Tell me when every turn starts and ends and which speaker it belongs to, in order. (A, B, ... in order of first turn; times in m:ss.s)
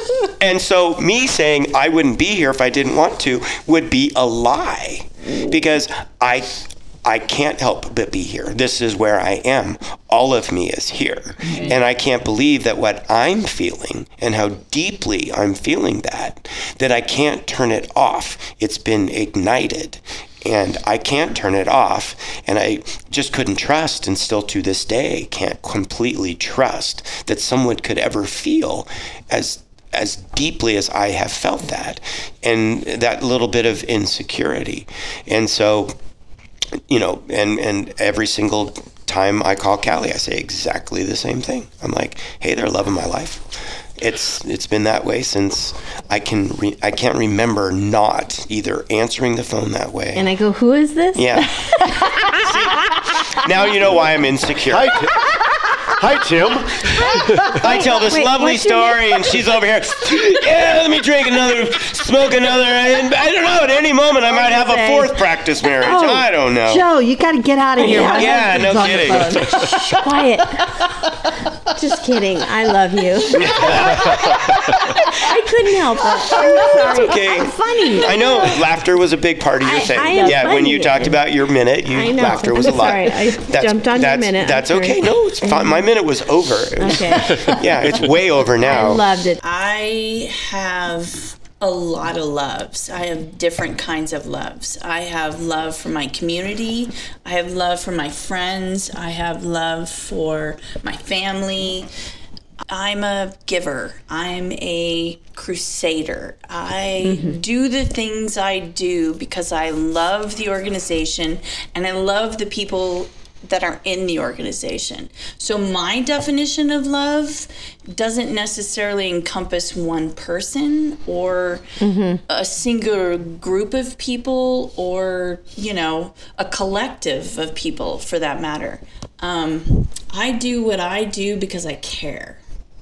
0:00.2-0:36.0 A
0:36.9-0:43.5 A
0:44.0-0:50.3 A
0:50.2-0:52.7 B
0:51.2-0:55.2 A
0:54.7-0:57.7 C
0:57.0-0:59.4 B
0:57.4-1:06.9 A
1:04.3-1:05.2 B
1:05.8-1:10.0 D
1:07.8-1:08.6 B
1:07.8-1:09.6 A
1:09.1-1:10.8 B
1:11.6-1:18.7 B
1:13.3-1:15.0 A
1:16.2-1:29.1 A
1:16.4-1:16.9 D
1:19.6-1:21.3 B
1:21.9-1:25.8 B
1:26.8-1:27.7 B
1:28.6-1:29.4 B
1:29.4-1:41.9 E
1:42.7-2:12.4 E
1:47.0-1:47.4 B
2:01.8-2:02.2 B